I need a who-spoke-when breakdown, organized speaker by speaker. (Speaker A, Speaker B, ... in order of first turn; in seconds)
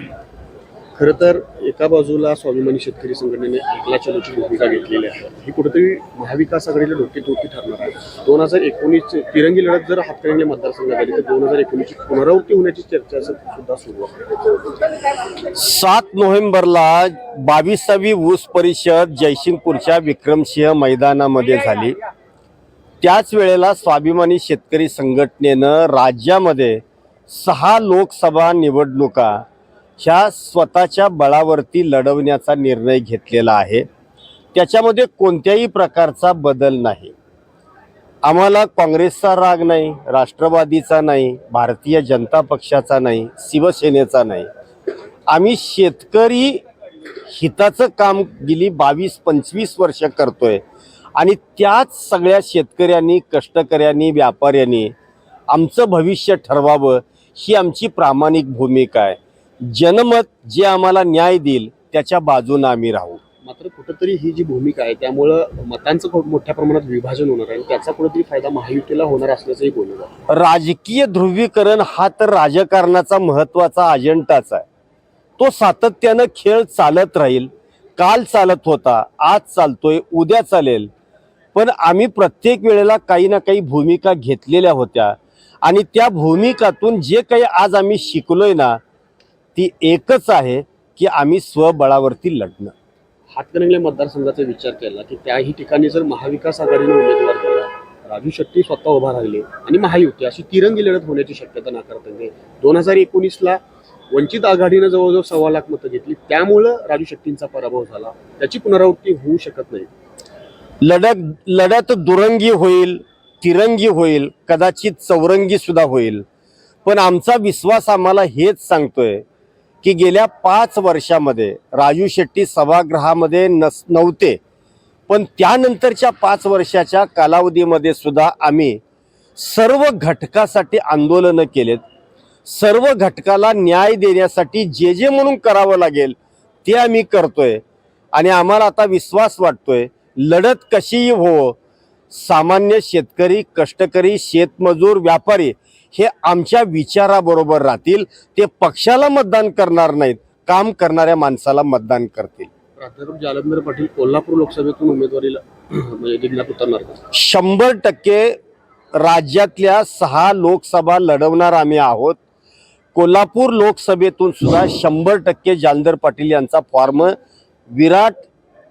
Speaker A: 1.0-14.5, 63.4-70.1, 93.3-109.9, 152.8-157.0
Speaker B: 15.5-21.9, 23.0-29.4, 30.0-33.9, 34.5-37.1, 38.2-44.5, 45.3-46.6, 47.3-50.6, 51.2-54.9, 55.5-63.2, 70.3-74.7, 75.4-80.9, 81.5-88.8, 89.5-92.8, 110.8-116.2, 116.8-119.2, 119.8-124.4, 125.1-128.8, 129.4-131.8, 132.4-137.6, 138.1-141.6, 142.1-152.5, 157.1-158.4, 159.0-162.2, 162.9-167.2, 167.7-168.3